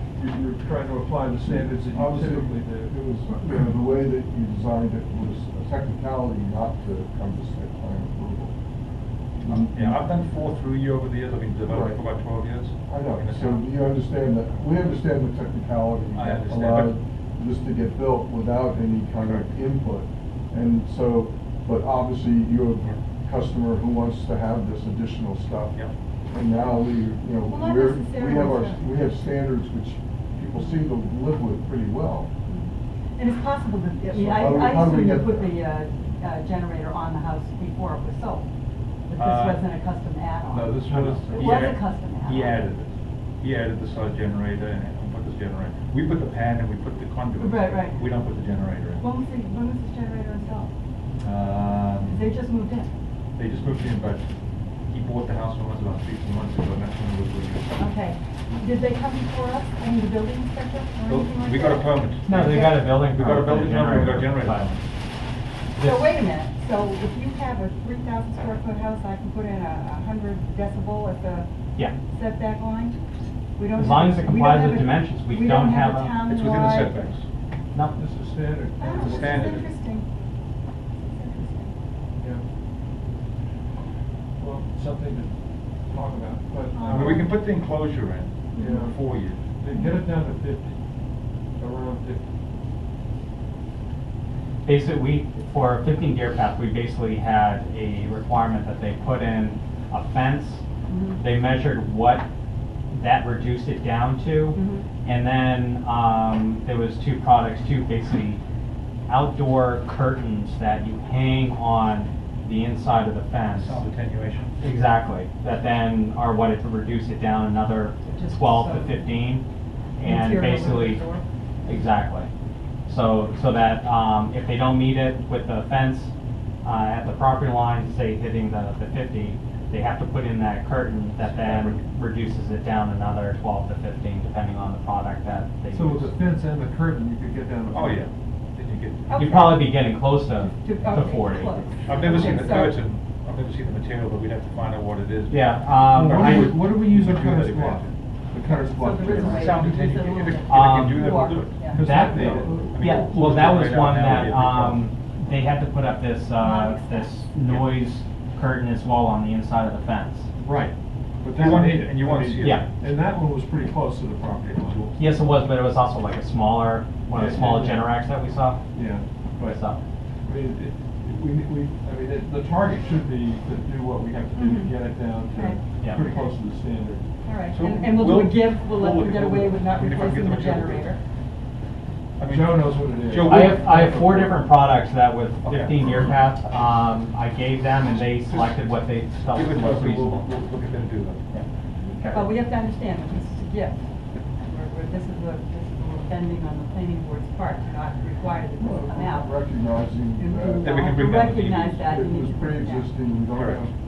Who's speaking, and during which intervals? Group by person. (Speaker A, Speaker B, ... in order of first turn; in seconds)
Speaker A: 0.2-2.9, 40.9-41.7, 78.0-79.7, 84.4-85.3, 85.9-87.3, 88.6-89.0, 89.6-90.8, 91.6-92.2, 135.7-138.1, 145.9-149.7, 151.7-152.5, 160.4-165.0, 167.1-167.9, 168.7-169.6, 170.2-177.1, 182.3-184.5
Speaker B: 1.5-8.5, 9.4-10.0, 11.6-12.0, 12.8-25.8, 26.3-32.3, 34.1-35.5, 152.2-153.0, 198.6-200.7, 201.8-203.7
Speaker C: 9.5-13.6, 16.1-16.9, 19.2-19.5, 39.1-39.7, 40.5-49.0, 51.2-52.3, 53.4-54.3, 54.9-57.7, 61.0-64.8, 76.2-77.2, 78.9-79.6, 86.9-89.4, 113.6-114.5, 131.2-131.8, 137.7-139.7, 141.8-147.9, 149.3-154.9, 157.5-157.8, 161.3-162.7, 177.5-180.9, 182.2-183.6, 185.4-185.8, 188.3-188.6, 189.2-191.4, 200.6-201.8, 203.3-203.7
Speaker D: 27.5-28.9, 32.5-38.5, 39.1-42.7, 47.4-48.1, 49.0-50.7, 52.0-52.9, 57.8-63.0, 65.8-71.5, 72.0-73.0, 73.6-77.1, 78.8-80.0, 81.1-81.7, 86.8-87.5, 88.5-89.0, 89.7-90.0, 100.9-101.2, 104.5-104.9, 118.0-119.2, 120.0-121.2, 139.1-139.8, 140.5-142.8, 148.5-152.3, 156.4-157.2, 174.3-175.6, 177.2-181.0, 191.9-193.8, 194.4-199.4, 200.2-203.0
Speaker E: 62.3-64.7, 73.7-76.2, 94.7-100.6, 101.2-102.3, 102.9-108.4, 109.1-113.8, 114.6-119.5, 120.0-121.0, 121.7-122.3, 122.9-126.1, 126.6-136.1, 139.2-141.6, 145.3-146.6, 150.5-160.3, 165.0-168.6, 169.4-169.8, 183.2-190.3, 192.0-192.3